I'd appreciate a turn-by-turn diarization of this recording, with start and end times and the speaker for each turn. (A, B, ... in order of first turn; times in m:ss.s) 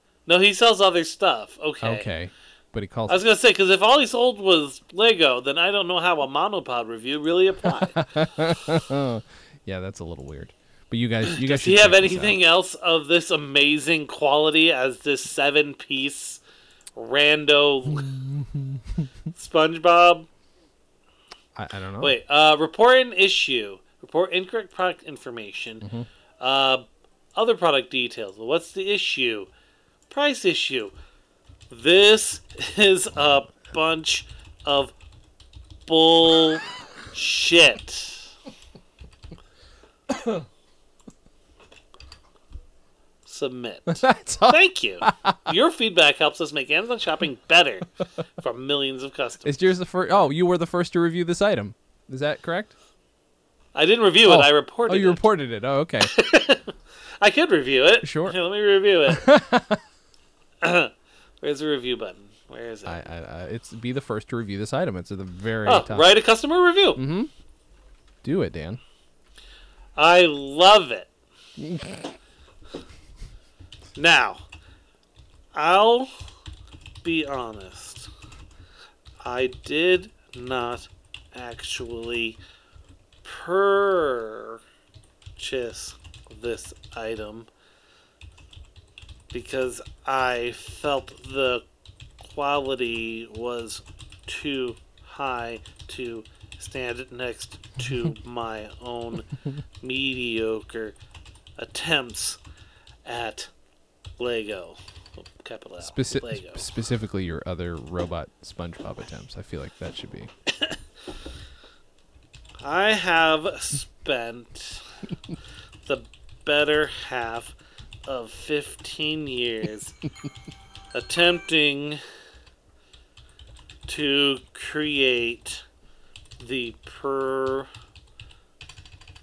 0:00.2-0:02.1 A
0:01.8-0:03.2 B
0:03.1-0:08.1 A
0:08.0-0:12.4 B
0:11.2-0:16.4 A
0:17.0-0:18.1 A
0:17.9-0:19.1 B
0:19.3-0:20.3 A
0:21.6-0:22.2 B
0:22.0-0:25.9 A
0:25.8-0:26.1 B
0:26.4-0:29.5 A
0:30.1-0:30.9 A
0:31.7-0:34.9 A
0:35.9-0:38.3 A
0:40.1-0:40.4 B
0:43.2-0:49.6 A
0:43.9-0:45.5 B
0:49.4-0:52.7 B
0:53.7-0:55.2 A
0:54.2-0:56.1 B
0:56.0-0:59.3 A
0:58.0-0:58.4 B
0:59.1-0:59.8 B
1:00.6-1:03.0 A
1:02.8-1:06.2 B
1:05.6-1:07.0 A
1:07.0-1:07.3 B
1:08.2-1:08.8 B
1:10.0-1:11.1 A
1:11.6-1:12.1 B
1:14.0-1:14.4 A
1:15.5-1:16.1 A
1:17.0-1:18.1 A
1:19.2-1:22.4 A
1:23.2-1:24.6 A
1:25.4-1:27.5 A
1:29.3-1:31.6 A
1:32.2-1:41.0 A
1:41.6-1:42.4 A
1:43.0-1:43.5 A
1:44.2-1:46.6 A
1:45.8-1:50.3 B
1:52.6-1:54.8 A
1:55.8-2:00.0 A
2:00.9-2:02.0 A
2:03.8-2:05.6 A
2:06.4-2:07.7 A